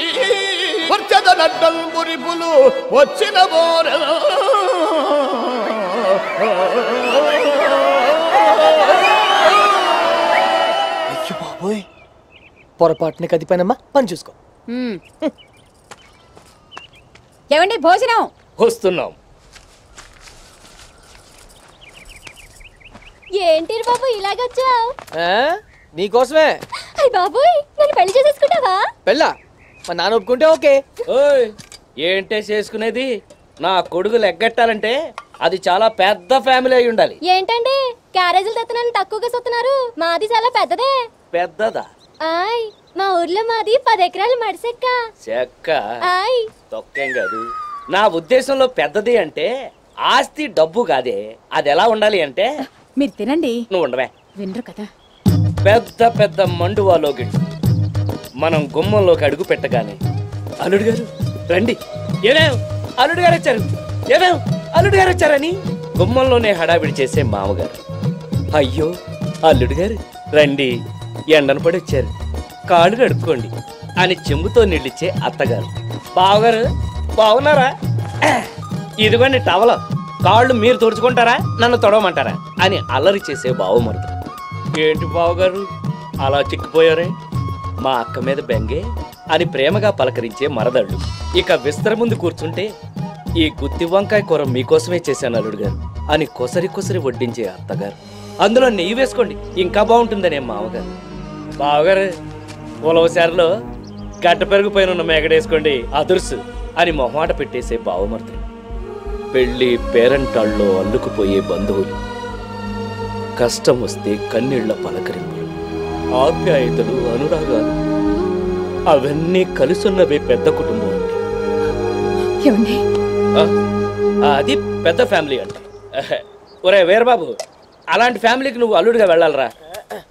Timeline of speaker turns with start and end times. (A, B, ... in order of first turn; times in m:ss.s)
0:00.9-0:04.1 A
0:11.2-0:11.7 B
0:12.8-0:14.3 B
0:14.7-0:15.0 C
0:17.5-0:18.3 C
0:18.6-0:19.2 D
0:23.4-0:24.9 E
0:25.2-0:26.5 B
0:27.0-0:28.8 E
0:29.1-0:29.3 B
0:29.9-0:30.8 B
0:31.1-0:33.1 D
0:33.6-0:37.2 D
0:37.3-0:41.0 E
0:41.3-0:41.9 D
0:42.2-0:45.0 E
0:45.2-0:45.8 D
0:46.0-0:46.4 E
0:46.7-0:49.5 D
0:50.1-0:52.5 D
0:53.0-0:53.6 C
0:53.7-0:54.1 D
0:54.4-0:54.9 C
0:55.6-0:57.4 D
0:58.4-1:00.0 D
1:00.6-1:07.8 D
1:08.6-1:08.9 D
1:09.5-1:10.7 D
1:11.3-1:12.1 D
1:12.7-1:16.6 D
1:17.2-1:17.7 D
1:19.0-1:24.1 D
1:24.8-1:25.7 D
1:26.2-1:27.2 D
1:27.8-1:32.7 D
1:33.4-1:40.8 D
1:41.6-1:42.1 D
1:42.8-1:43.5 D
1:44.2-1:48.5 D
1:49.3-1:52.0 D
1:53.4-1:55.5 D
1:56.2-1:57.8 D
1:58.9-2:01.2 D
2:02.4-2:02.8 C
2:04.2-2:07.3 D
2:07.9-2:09.5 D